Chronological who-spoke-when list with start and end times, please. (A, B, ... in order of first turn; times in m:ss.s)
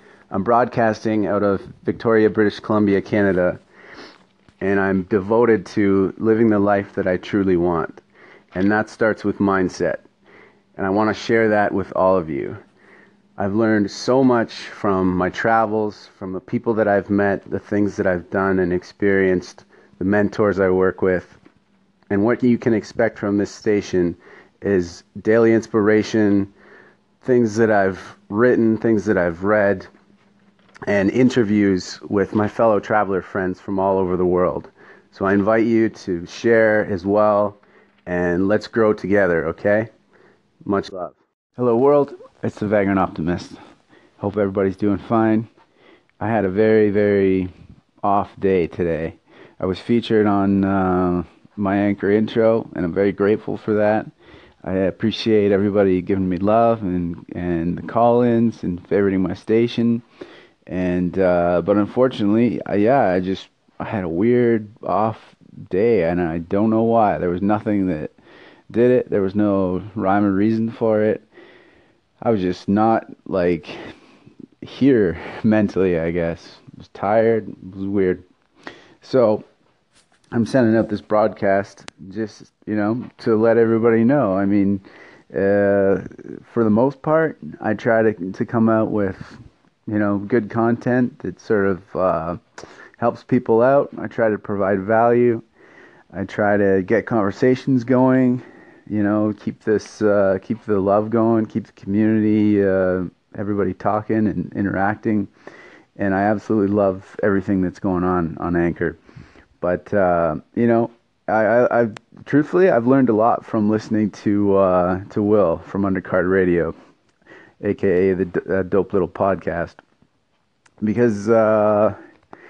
0:00.3-0:03.6 A
0:04.6-0:08.0 A
0:08.5-0:10.0 A
0:10.8-0:12.6 A
0:13.4-0:21.4 A
0:22.1-0:26.5 A
0:27.2-0:29.9 A
0:30.9-0:39.9 A
0:40.7-0:43.6 A
0:44.2-0:45.5 A
0:46.2-0:47.5 A
0:48.0-0:54.1 A
0:54.6-1:00.0 A
1:00.7-1:08.1 A
1:08.7-1:11.3 A
1:12.2-1:14.0 A
1:14.6-1:18.2 A
1:19.0-1:19.4 A
1:20.3-1:32.4 A
1:33.0-1:35.4 A
1:36.1-1:45.3 A
1:46.0-1:49.0 A
1:49.6-1:56.7 A
1:57.6-1:59.8 A
2:00.8-2:02.0 A